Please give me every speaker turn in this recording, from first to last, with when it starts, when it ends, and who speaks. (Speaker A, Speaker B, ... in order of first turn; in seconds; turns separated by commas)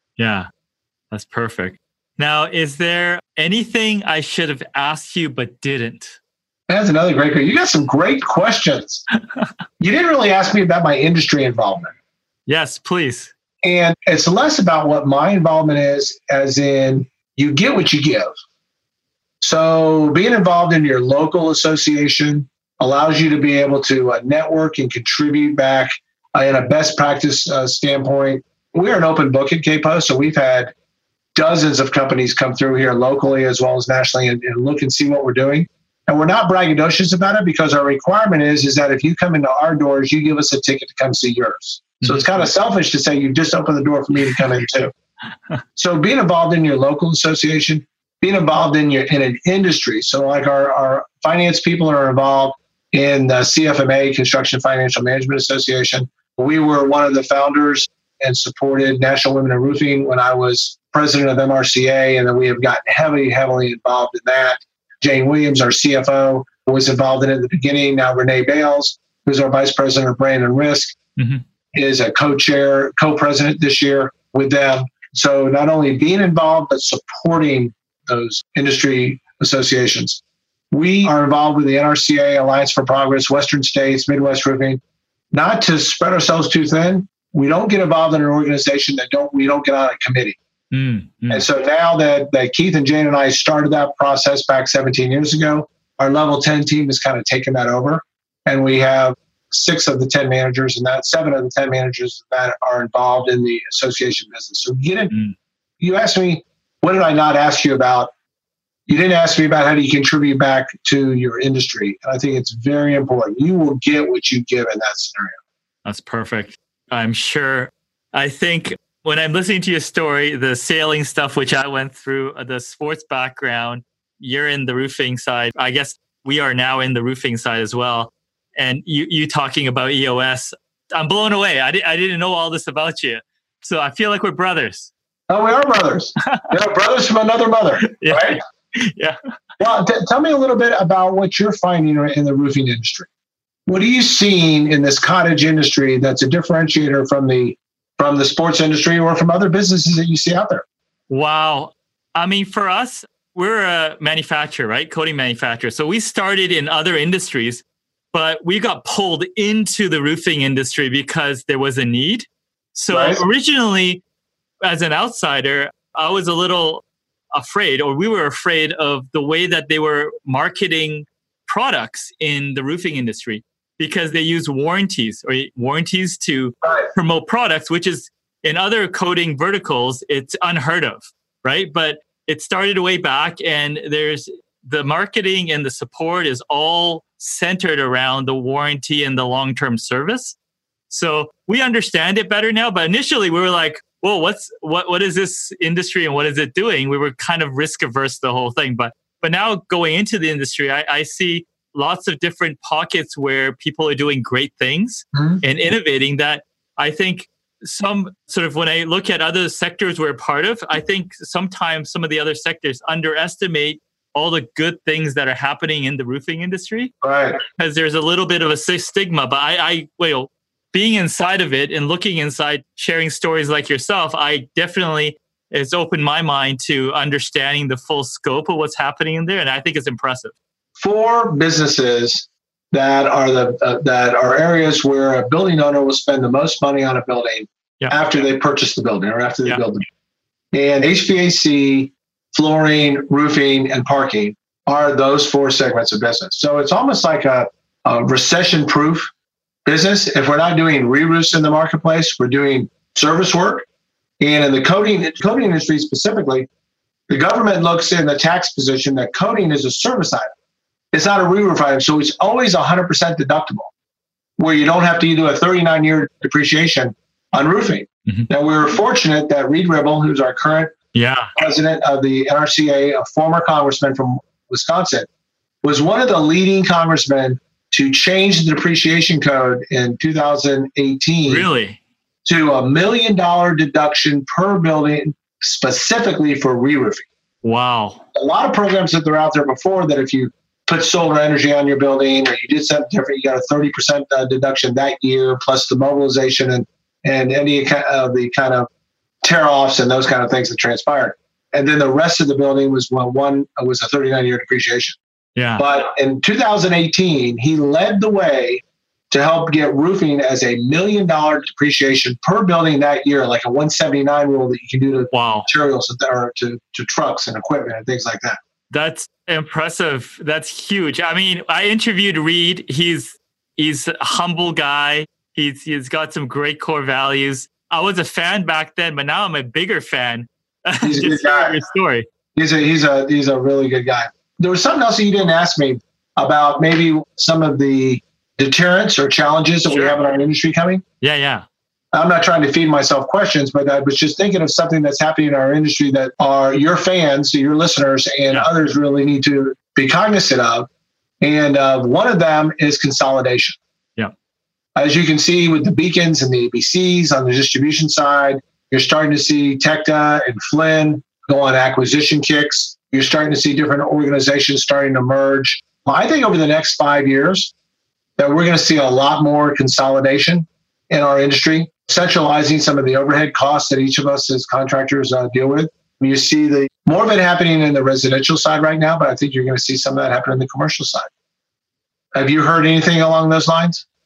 Speaker A: 0.2-0.5, Speaker A: 1.1-6.2, Speaker B: 6.7-9.0, Speaker B: 9.8-11.9, Speaker A: 12.5-13.3, Speaker B: 13.6-18.3, Speaker B: 19.4-30.7, Speaker B: 31.3-44.9, Speaker A: 42.0-42.4, Speaker B: 45.8-70.9, Speaker A: 71.2-71.4, Speaker B: 71.7-84.8, Speaker B: 85.3-90.4, Speaker A: 90.7-91.4, Speaker B: 91.3-105.1, Speaker B: 105.8-108.1, Speaker B: 108.9-115.4, Speaker A: 115.8-134.9, Speaker B: 135.3-138.4, Speaker A: 136.2-136.5, Speaker A: 137.8-139.2, Speaker B: 139.6-143.1, Speaker B: 143.7-150.6, Speaker A: 151.1-164.0, Speaker B: 162.9-163.2, Speaker A: 164.6-190.3, Speaker B: 176.6-176.9, Speaker A: 190.9-216.9, Speaker B: 205.1-205.4, Speaker B: 217.0-217.4, Speaker A: 217.4-230.3, Speaker B: 230.8-239.8, Speaker B: 240.5-249.1, Speaker B: 249.7-253.6, Speaker B: 254.2-256.5, Speaker B: 257.1-260.3, Speaker B: 260.9-263.7, Speaker B: 264.4-270.7, Speaker A: 270.9-271.3, Speaker B: 271.4-275.1, Speaker B: 275.6-281.5, Speaker A: 281.3-281.8, Speaker B: 282.2-287.1, Speaker A: 287.4-288.0, Speaker B: 288.1-298.7, Speaker B: 299.2-305.0, Speaker A: 305.4-305.6, Speaker B: 305.6-318.4, Speaker A: 315.1-315.5, Speaker A: 318.7-332.1, Speaker B: 330.8-331.6, Speaker B: 332.3-340.8, Speaker A: 339.7-339.9, Speaker A: 341.0-341.4, Speaker B: 341.9-350.7, Speaker B: 351.2-353.6, Speaker B: 354.8-367.5, Speaker B: 368.2-381.1, Speaker B: 382.1-383.8